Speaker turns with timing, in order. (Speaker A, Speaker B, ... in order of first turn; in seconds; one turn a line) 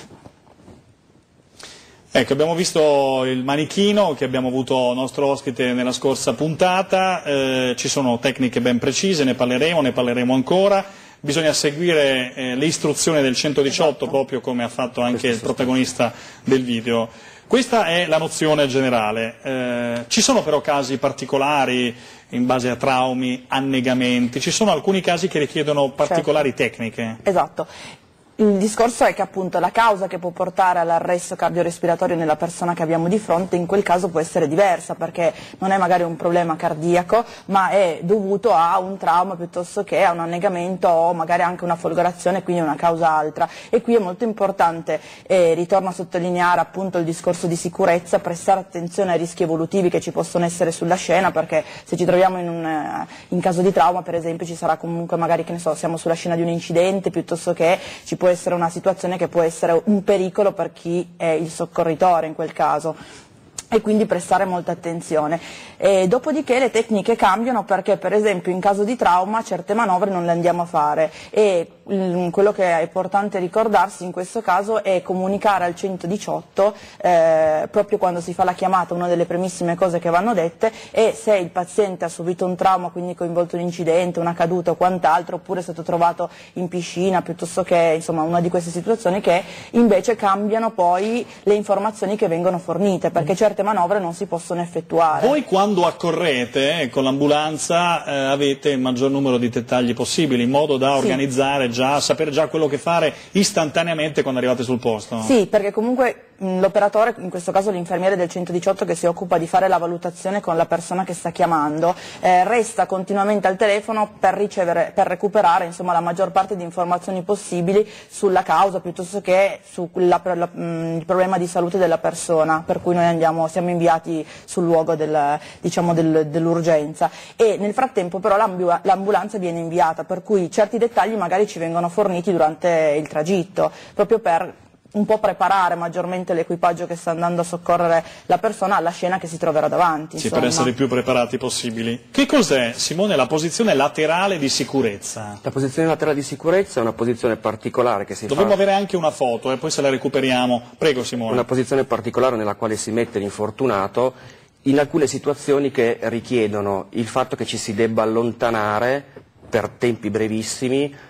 Speaker A: 2.1-27.2
Speaker B: 15.1-15.7
Speaker C: 27.2-27.7
Speaker C: 28.4-63.0
Speaker C: 63.7-95.3
Speaker A: 95.2-105.3
Speaker C: 105.2-140.7
Speaker A: 140.2-145.4
Speaker B: 145.4-148.6
Speaker A: 148.3-151.4
Speaker B: 151.2-160.9